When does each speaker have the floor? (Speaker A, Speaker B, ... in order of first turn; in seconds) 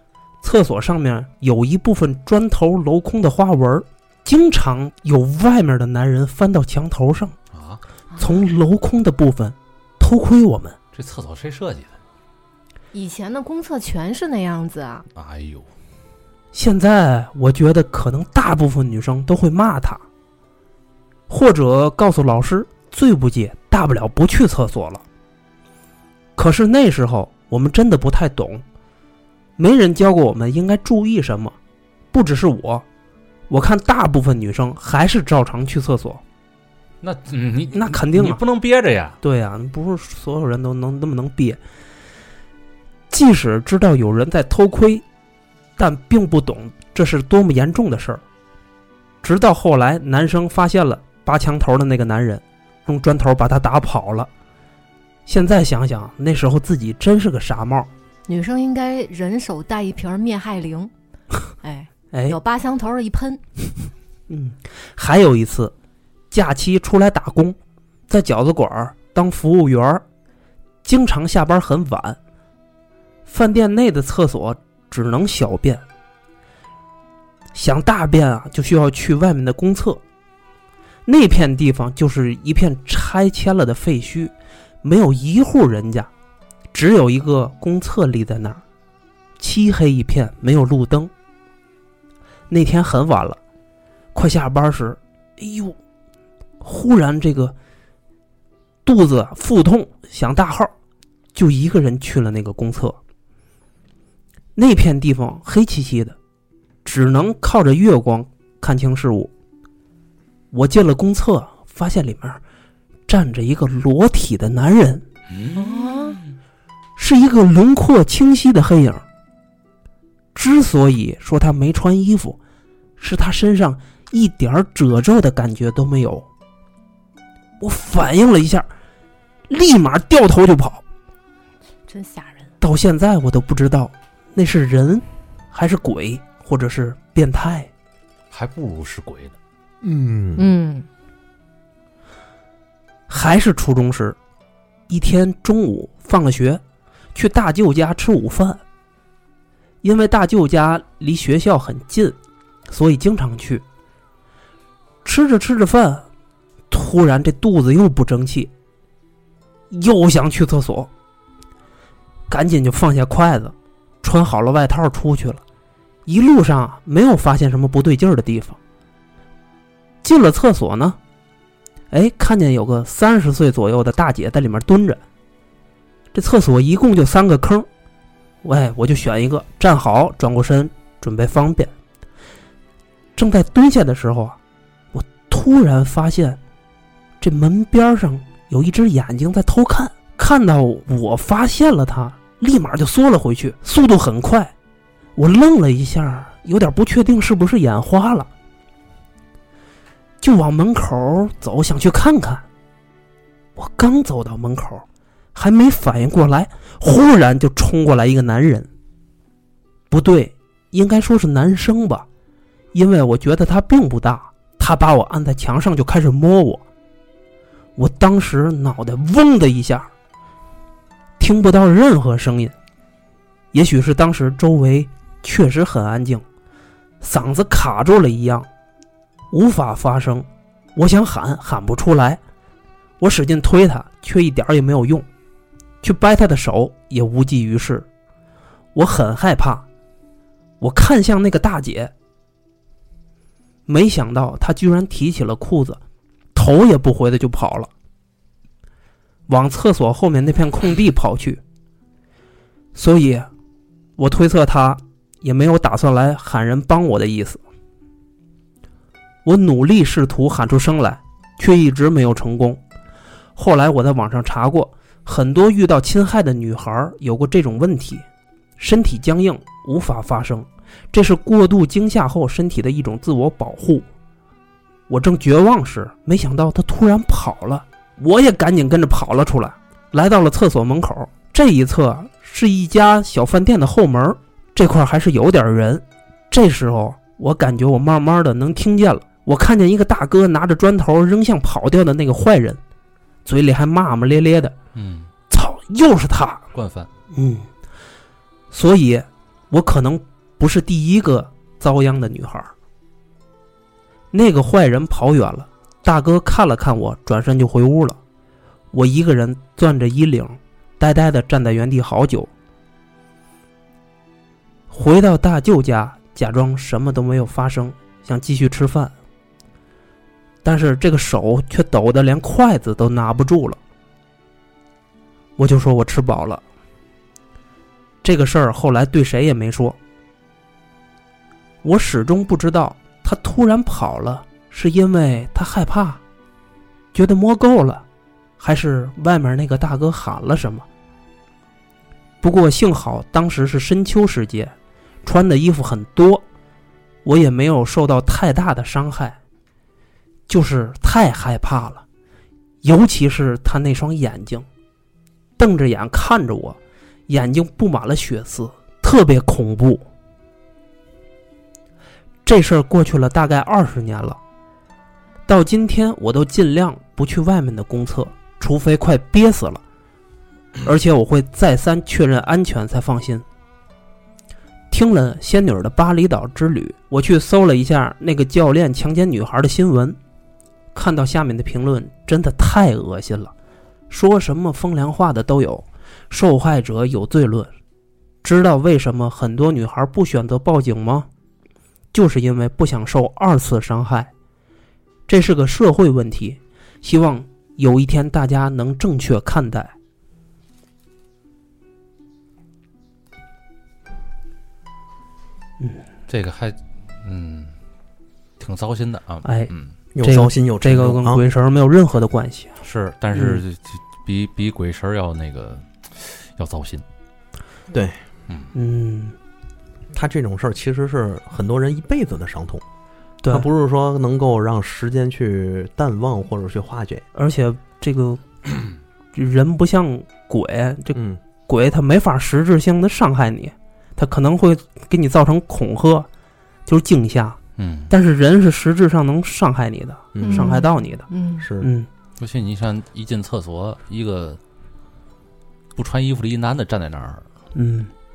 Speaker A: 0.4-7.4, 8.2-10.8, 16.5-20.0, 21.3-25.0, 26.4-28.6, 29.6-31.6, 32.1-32.9, 33.5-36.2, 37.7-38.4, 39.2-41.6, 43.1-45.0, 45.8-48.2, 49.2-54.3, 55.3-57.9, 62.1-62.4, 64.3-65.7, 66.3-67.6, 68.1-70.0, 70.8-72.2, 73.3-75.8, 77.5-80.0, 81.1-86.1, 86.7-88.6, 89.4-91.1, 92.5-93.4, 94.1-95.8, 96.6-97.5, 98.8-100.7, 101.3-103.0, 104.6-106.2, 106.8-109.3, 110.5-112.4, 113.1-115.0, 117.0-119.0, 120.3-122.4, 123.0-126.3, 127.6-128.7, 129.5-130.8, 132.6-137.7, 143.1-144.2, 144.9-146.6, 147.2-148.6, 149.8-152.2, 152.7-153.6, 155.0-156.1, 156.7-158.5, 159.7-160.9, 162.3-165.4, 166.1-168.6, 170.0-171.0, 171.9-175.0, 176.1-177.7, 178.4-181.7, 183.2-184.4, 184.9-186.4, 187.2-194.5, 195.2-198.3, 200.2-202.4, 203.6-208.7, 209.9-212.1, 212.7-216.6, 217.8-219.9, 221.2-222.5, 223.5-226.2, 227.0-228.5, 229.3-232.2, 233.0-235.1, 235.8-237.9, 238.8-239.7, 240.6-241.9, 243.7-245.8, 246.3-247.7, 249.3-251.4, 252.8-253.3, 254.0-257.4, 259.2-262.6, 263.4-268.0, 268.6-273.9, 274.9-292.6, 293.2-294.6, 295.3-296.4, 297.1-297.5, 298.5-302.5, 304.1-308.0, 308.7-312.3, 314.7-318.9, 320.4-323.6, 325.4-326.4, 328.0-329.8, 331.6-336.0, 336.9-337.9, 338.4-340.7, 342.2-344.5, 345.0-346.2, 347.1-349.2, 350.3-351.8, 352.6-354.4, 355.4-359.9, 362.2-364.2, 365.3-369.6, 370.6-373.2, 374.7-380.0, 380.7-383.3, 383.9-387.5, 388.2-391.1, 391.9-394.1, 395.1-399.7, 409.2-412.6, 413.1-413.4, 418.6-419.1, 423.2-423.5, 427.1-436.1, 436.7-437.4, 437.9-441.1, 441.6-441.9, 447.6-447.9
Speaker B: 7.5-7.8, 10.9-11.9, 15.2-15.7, 37.0-39.2, 138.3-139.3, 294.8-295.1, 296.5-296.9, 406.1-407.5, 408.4-409.7, 412.6-416.8, 437.6-437.9, 442.2-444.4, 445.8-447.2
Speaker C: 12.9-15.1, 58.3-60.9, 61.6-63.4, 115.5-116.2, 131.9-132.5, 140.4-140.9, 440.2-441.5
Speaker D: 139.8-140.4, 409.9-411.2, 417.7-418.0, 419.9-422.6, 423.3-427.0, 440.1-440.6, 441.4-441.7